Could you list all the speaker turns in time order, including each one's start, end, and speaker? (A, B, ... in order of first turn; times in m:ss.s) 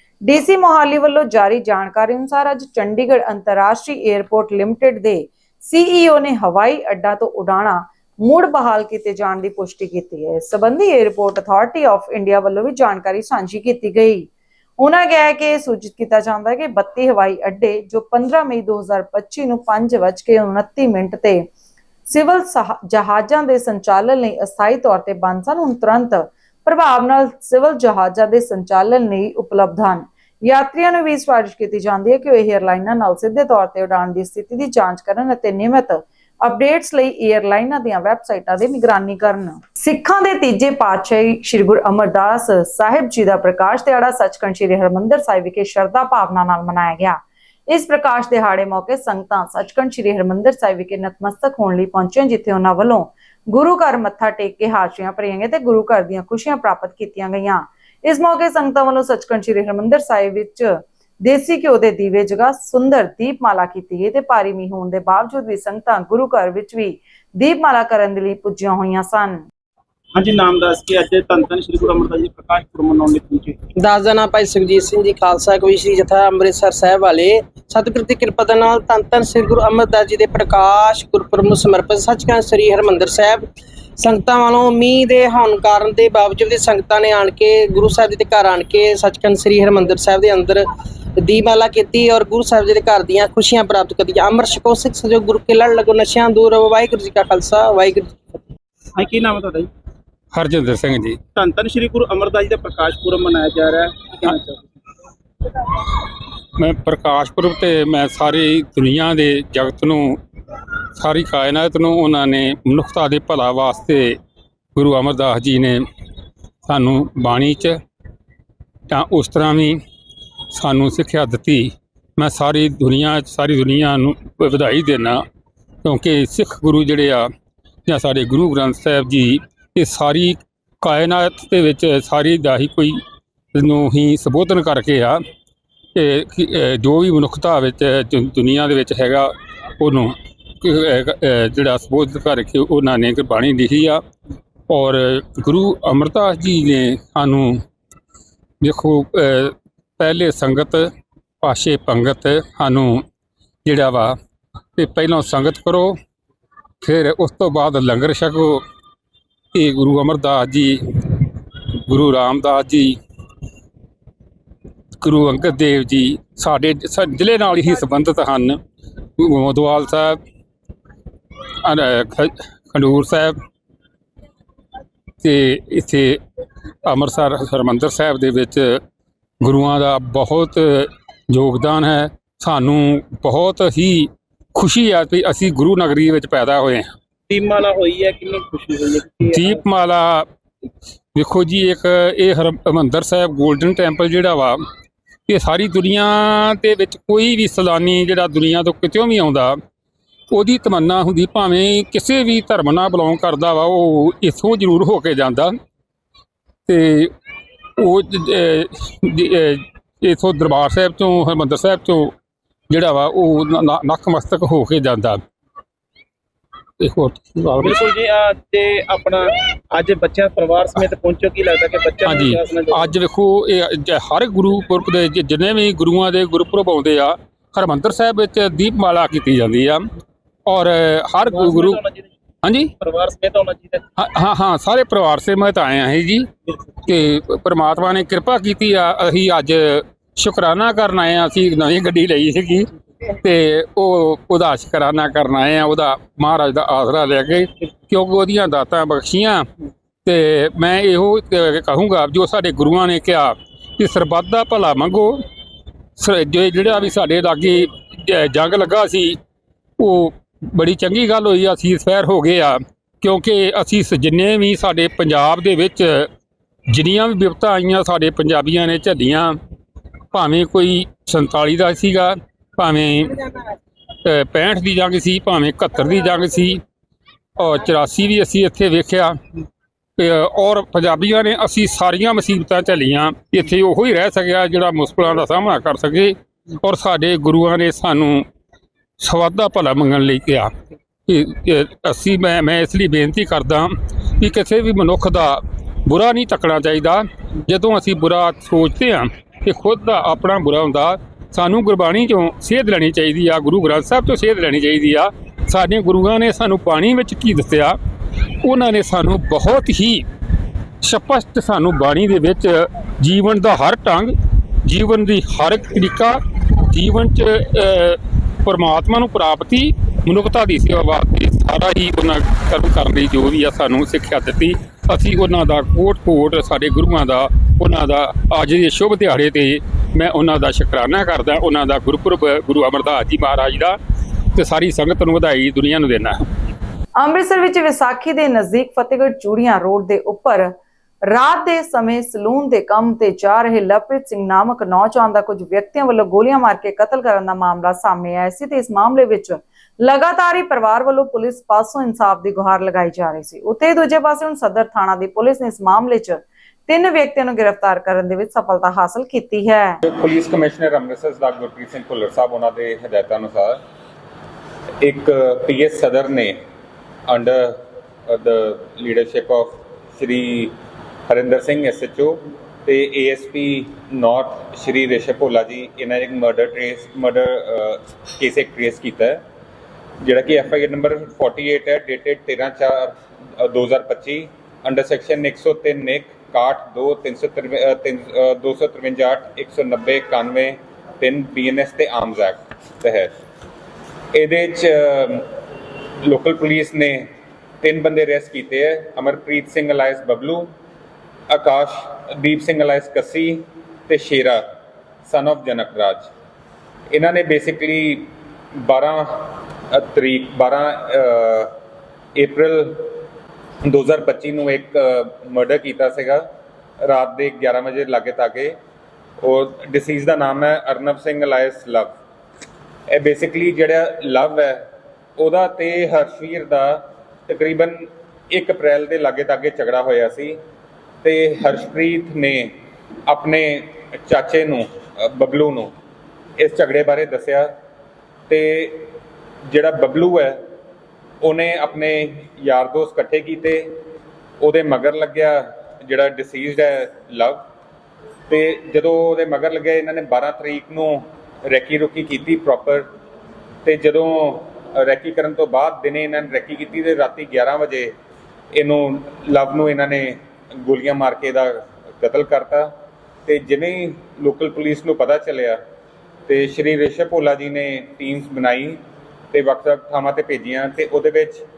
0:00.3-0:14.3 A
0:14.8-0:21.5 A
0:22.1-1:09.4 A
1:10.2-1:13.6 B
1:13.8-1:38.4 C
1:39.0-1:39.7 B
1:40.3-1:41.2 D
1:41.4-1:44.7 B
1:46.6-1:50.2 D
1:51.0-1:54.1 D
1:54.8-1:55.8 D
1:56.7-1:57.8 D
1:58.9-1:59.8 D
2:00.5-2:05.2 D
2:05.8-2:07.3 D
2:07.9-2:13.0 D
2:13.6-2:15.2 D
2:16.0-2:24.0 D
2:24.7-2:27.6 D
2:28.6-2:30.9 D
2:31.4-2:33.0 D
2:33.6-2:34.1 D
2:34.8-2:36.0 D
2:36.8-2:38.6 D
2:39.5-2:41.2 D
2:41.9-2:43.0 D
2:45.0-2:48.6 D
2:49.2-2:50.2 D
2:51.6-2:53.3 D
2:55.2-2:56.2 D
2:56.8-2:58.8 D
2:59.4-3:06.9 D
3:07.3-3:09.6 B
3:09.2-3:10.3 D
3:11.2-3:14.6 D
3:15.3-3:19.6 D
3:20.3-3:25.5 D
3:26.7-3:27.1 D
3:27.8-3:32.1 D
3:32.7-3:35.2 D
3:36.8-3:37.9 D
3:37.6-3:42.8 B
3:42.0-3:49.8 D
3:50.5-3:51.8 D
3:51.2-3:52.1 B
3:52.4-3:52.7 D
3:52.8-3:53.8 B
3:54.0-3:56.3 D
3:56.9-4:09.4 D
4:10.0-4:15.2 D
4:16.0-4:19.2 D
4:19.8-4:26.1 D
4:26.7-4:29.4 D
4:30.1-4:33.1 D
4:34.1-4:36.6 D
4:37.4-4:39.1 D
4:40.0-4:48.2 D
4:49.0-4:50.5 D
4:51.1-5:07.8 D
5:08.4-5:10.0 D
5:10.8-5:14.1 D
5:14.6-5:33.8 D
5:34.4-5:36.2 D
5:37.0-5:40.5 A
5:41.1-5:59.8 A
5:59.8-6:03.6 E
6:04.8-6:06.4 E
6:07.1-6:07.5 E
6:08.1-6:10.5 E
6:11.1-6:19.2 E
6:20.0-6:33.1 E
6:34.1-6:35.2 E
6:36.0-6:37.1 E
6:37.6-6:40.5 E
6:41.3-6:44.4 E
6:45.1-6:46.1 E
6:46.9-6:51.5 E
6:52.2-6:52.9 E
6:53.6-6:56.2 E
6:56.8-6:58.6 E
6:59.2-7:02.0 E
7:02.9-7:04.6 E
7:05.2-7:10.4 E
7:11.0-7:12.5 E
7:13.1-7:15.7 E
7:16.4-7:17.5 E
7:18.3-7:18.9 E
7:19.5-7:20.4 E
7:21.2-7:23.7 E
7:24.4-7:27.4 E
7:28.3-7:32.9 E
7:33.6-7:37.9 E
7:38.5-7:42.7 E
7:43.3-7:45.6 E
7:46.3-7:48.8 E
7:49.3-7:51.4 E